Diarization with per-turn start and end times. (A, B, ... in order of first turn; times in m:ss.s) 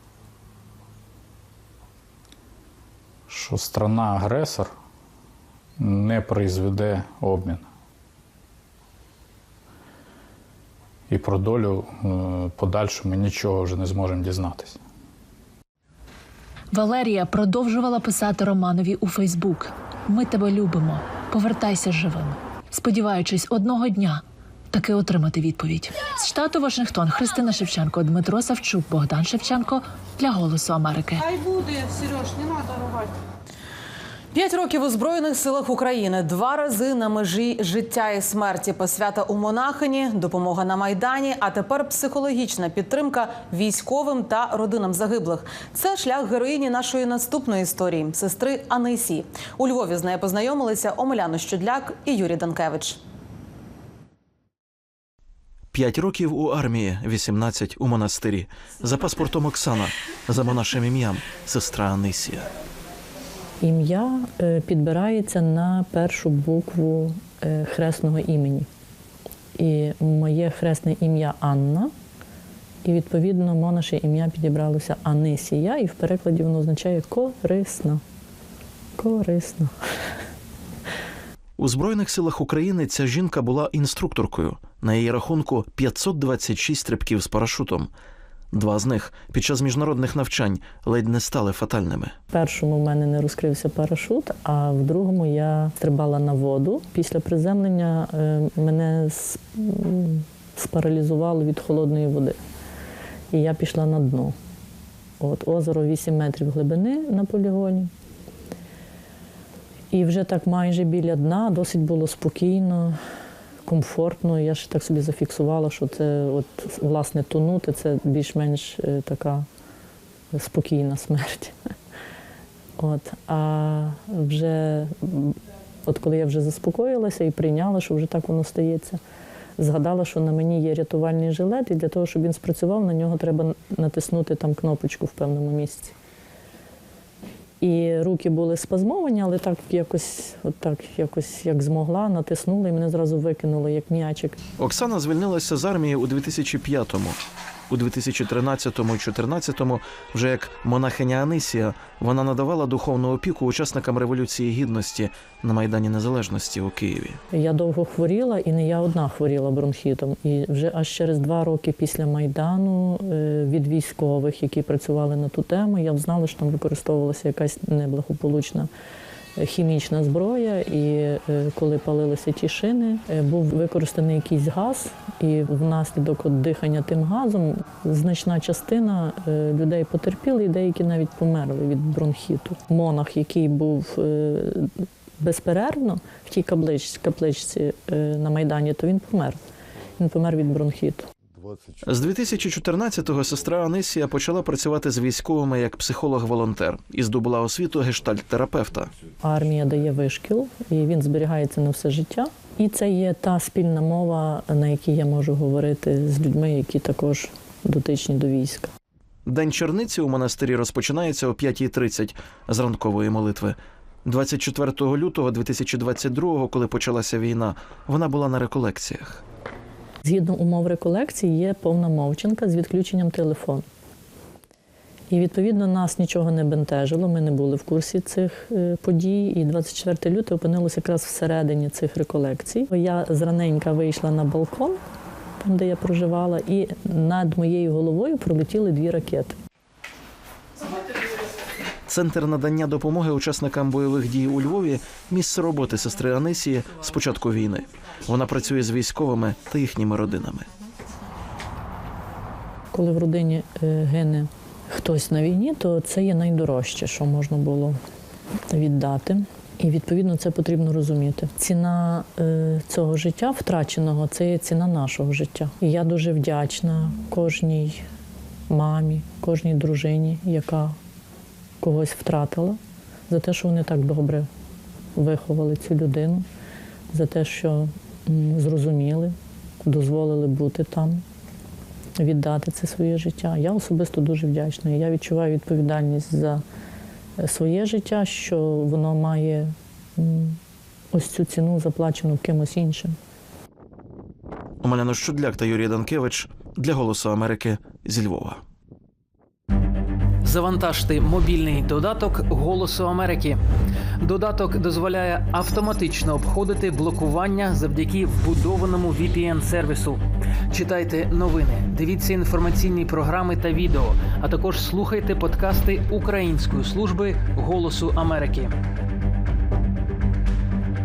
0:03.3-0:04.7 A
0:05.8-0:07.6 A
0:11.1-0:14.8 A
0:16.7-0:31.3 B
0:31.2-0:33.1 C
0:34.3-0:53.0 D
0:55.7-1:02.5 E
1:03.6-1:08.7 F
1:09.6-1:11.9 F
1:12.8-1:18.0 F
1:19.0-1:19.7 F
1:21.6-1:27.9 E
1:28.5-1:32.1 E
1:32.3-1:42.4 F
1:43.3-1:44.3 F
1:45.2-1:47.9 F
1:49.9-1:53.0 F
1:53.6-1:59.4 F
2:00.3-2:01.6 F
2:02.8-2:09.0 F
2:09.6-2:15.9 F
2:17.6-2:24.4 F
2:24.6-2:27.2 E
2:27.7-2:37.2 E
2:37.3-2:48.7 F
2:49.4-3:09.4 F
3:10.0-3:11.1 F
3:11.8-3:18.9 E
3:19.2-3:28.7 F
3:29.3-3:39.2 E
3:40.0-3:43.6 F
3:45.1-3:54.8 F
3:55.4-3:59.4 F
4:01.9-4:10.5 E
4:12.7-4:17.8 F
4:18.5-4:27.8 F
4:28.5-4:30.8 F
4:31.6-4:34.3 F
4:35.0-4:36.2 F
4:36.9-4:39.1 F
4:39.6-4:41.0 F
4:42.0-4:46.4 F
4:47.2-4:50.4 F
4:50.9-4:53.0 F
4:54.6-4:58.4 E
5:00.2-5:03.4 G
5:04.0-5:18.5 G